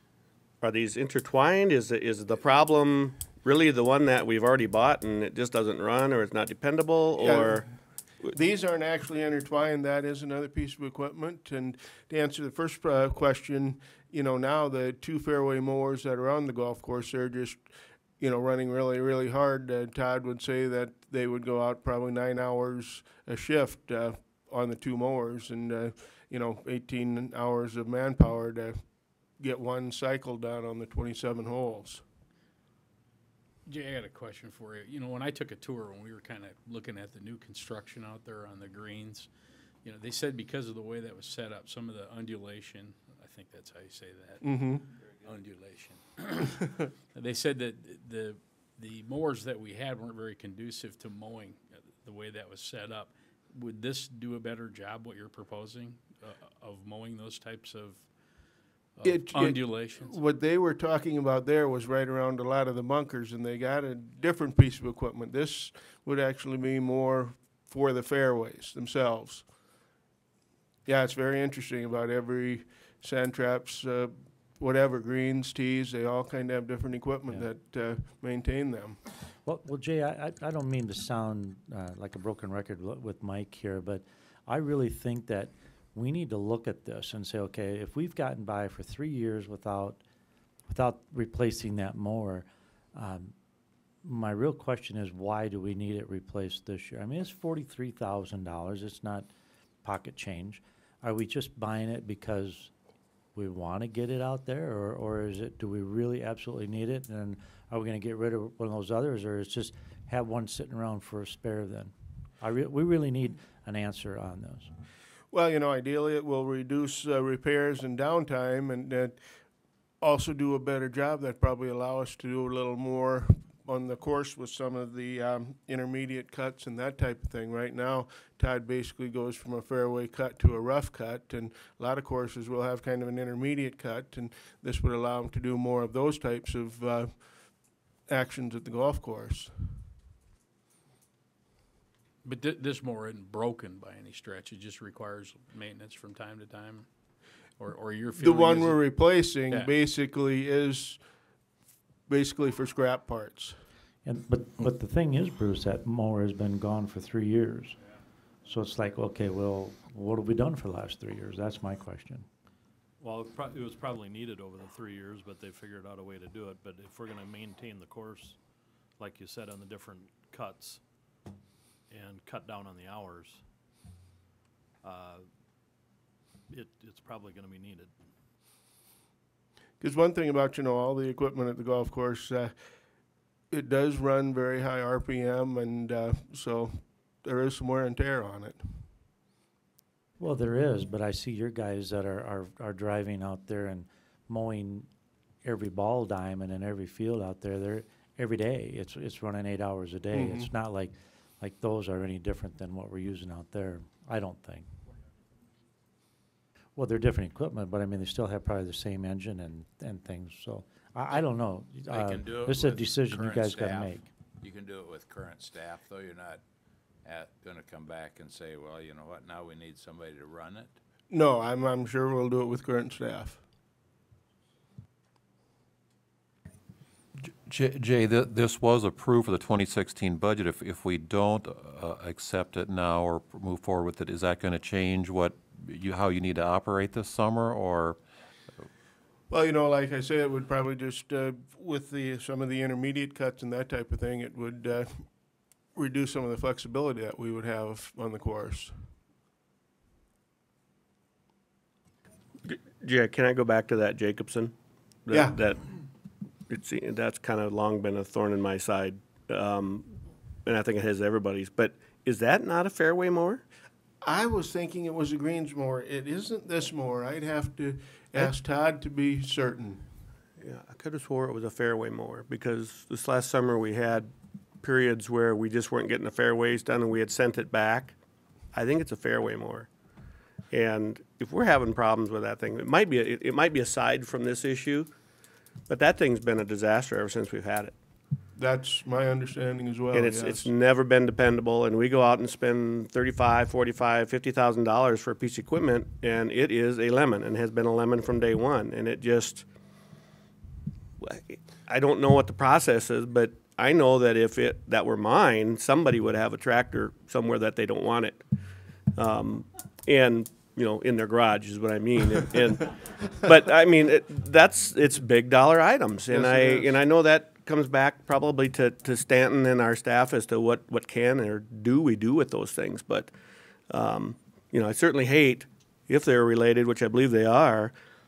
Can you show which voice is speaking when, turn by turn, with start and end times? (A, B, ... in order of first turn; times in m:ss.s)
0:00.6-0:08.3 A
0:07.2-0:07.7 B
0:08.3-0:32.0 B
0:33.7-0:39.3 C
0:39.8-0:44.7 C
0:44.4-0:44.8 B
0:45.2-0:46.0 D
0:45.4-0:46.5 C
0:47.1-0:58.1 C
0:59.0-1:00.2 C
0:59.0-1:09.6 B
1:10.8-1:19.0 B
1:19.4-1:30.0 E
1:30.7-1:33.3 E
1:34.0-1:39.3 E
1:39.8-1:42.7 E
1:43.4-1:54.7 E
1:55.3-1:59.2 B
2:00.0-2:19.8 B
2:22.2-2:29.8 C
2:28.2-2:31.1 B
2:32.1-2:33.6 B
2:34.1-2:37.8 E
2:38.5-2:42.3 E
2:43.0-2:48.4 F
2:49.0-2:50.8 F
2:51.9-2:53.4 F
2:54.8-2:55.3 F
2:56.5-2:57.9 F
2:59.8-3:02.7 B
3:03.5-3:08.9 B
3:10.2-3:14.9 E
3:15.4-3:24.7 E
3:20.1-3:20.5 B
3:26.8-3:34.1 E
3:31.9-3:36.4 D
3:37.0-3:40.8 D
3:41.1-3:43.4 B
3:47.4-3:58.0 G
3:59.3-4:05.2 B
4:05.7-4:08.9 B
4:12.4-4:14.6 A
4:15.1-4:15.7 A
4:15.1-4:15.4 B
4:16.5-4:23.4 A
4:24.0-4:29.9 B
4:30.4-4:38.0 A
4:38.5-4:39.7 A
4:40.5-4:44.9 A
4:45.7-4:47.8 A
4:48.4-4:50.5 B
4:49.9-4:59.5 A
5:01.0-5:08.2 A
5:09.0-5:23.1 A
5:16.1-5:16.8 B
5:23.7-5:27.7 A